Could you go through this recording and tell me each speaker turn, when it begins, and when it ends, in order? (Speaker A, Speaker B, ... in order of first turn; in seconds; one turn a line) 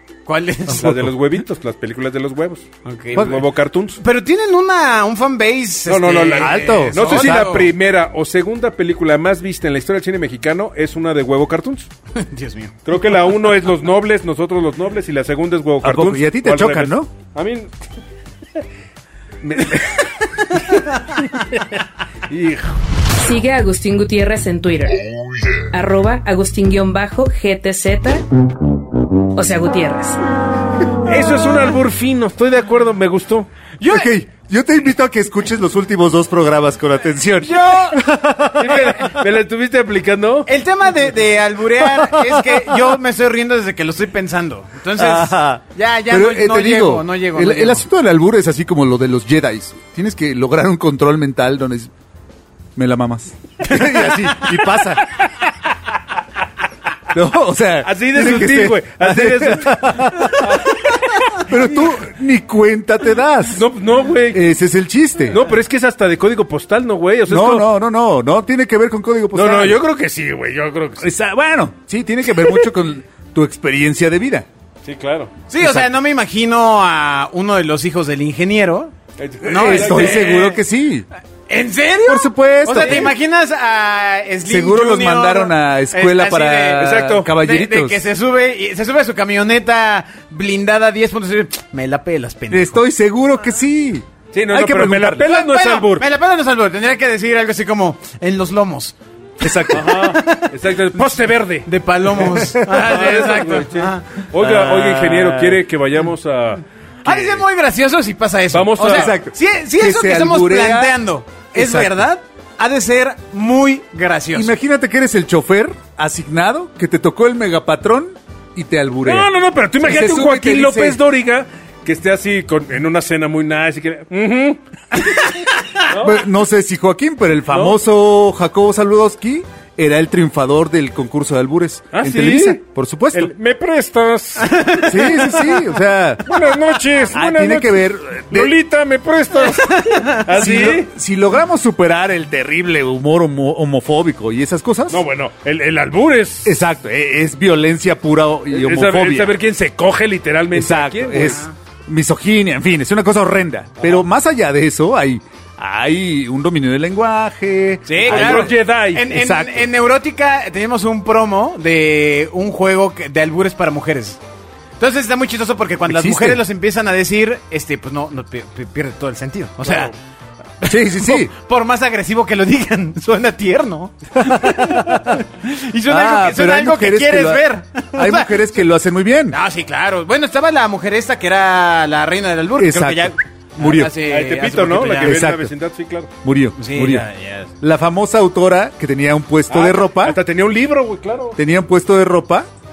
Speaker A: 0.2-0.9
Speaker B: 0.7-4.0
Speaker C: 0.8-1.1
Speaker A: 2.9-3.4
Speaker C: 3.2-3.4
Speaker A: 4.0-7.7
Speaker B: 5.8-11.9
Speaker C: 6.3-7.7
Speaker A: 12.2-12.8
Speaker B: 12.9-17.7
Speaker C: 15.8-17.1
Speaker B: 19.4-22.8
Speaker D: 23.2-25.0
Speaker D: 25.6-28.3
Speaker D: 29.4-30.2
Speaker B: 31.0-33.5
Speaker A: 33.8-34.1
Speaker C: 33.9-38.9
Speaker A: 37.4-38.0
Speaker B: 38.6-40.5
Speaker A: 38.7-39.0
Speaker A: 40.5-47.8
Speaker C: 45.0-51.9
Speaker C: 52.8-55.5
Speaker A: 53.6-54.6
Speaker C: 57.1-60.7
Speaker B: 57.8-61.5
Speaker C: 61.3-63.7
Speaker B: 63.5-64.4
Speaker C: 64.3-65.4
Speaker B: 65.3-67.7
Speaker C: 67.3-69.8
Speaker B: 69.3-71.1
Speaker C: 71.0-74.5
Speaker B: 74.8-75.3
Speaker A: 75.5-78.9
Speaker C: 75.6-75.9
Speaker B: 79.2-80.3
Speaker C: 79.4-81.1
Speaker A: 79.5-80.6
Speaker A: 81.5-92.8
Speaker C: 82.0-83.2
Speaker B: 82.8-83.1
Speaker C: 84.5-88.1
Speaker B: 86.8-87.3
Speaker C: 92.5-95.3
Speaker B: 94.3-96.1
Speaker A: 95.2-104.2
Speaker C: 99.4-100.1
Speaker B: 99.7-106.6
Speaker C: 102.3-103.0
Speaker C: 104.4-105.6
Speaker A: 107.0-114.5
Speaker C: 107.1-107.4
Speaker B: 108.5-109.1
Speaker C: 108.8-111.0
Speaker C: 111.5-112.1
Speaker C: 114.3-119.3
Speaker B: 119.0-124.6
Speaker C: 119.8-121.0
Speaker A: 125.0-125.5
Speaker B: 125.9-126.3
Speaker C: 125.9-133.3
Speaker B: 127.5-127.8
Speaker B: 131.9-132.6
Speaker B: 133.1-134.8
Speaker A: 134.4-135.5
Speaker C: 134.8-136.3
Speaker B: 136.2-140.9
Speaker C: 137.1-138.5
Speaker A: 139.6-140.2
Speaker C: 140.3-145.0
Speaker B: 144.9-146.5
Speaker C: 146.4-149.4
Speaker B: 148.5-151.4
Speaker C: 150.5-158.5
Speaker A: 151.2-151.5
Speaker A: 157.9-164.2
Speaker B: 158.0-159.1
Speaker C: 159.1-159.7
Speaker A: 164.8-169.9
Speaker C: 165.9-166.4
Speaker B: 169.6-169.9
Speaker A: 170.6-178.5
Speaker C: 170.7-171.3
Speaker C: 174.2-175.0
Speaker C: 175.9-179.4
Speaker A: 179.3-185.3
Speaker C: 182.6-184.0
Speaker B: 184.0-186.1
Speaker C: 185.0-185.5
Speaker C: 186.2-187.1
Speaker A: 186.6-187.5
Speaker C: 187.6-190.2
Speaker B: 189.5-191.4
Speaker C: 191.4-192.5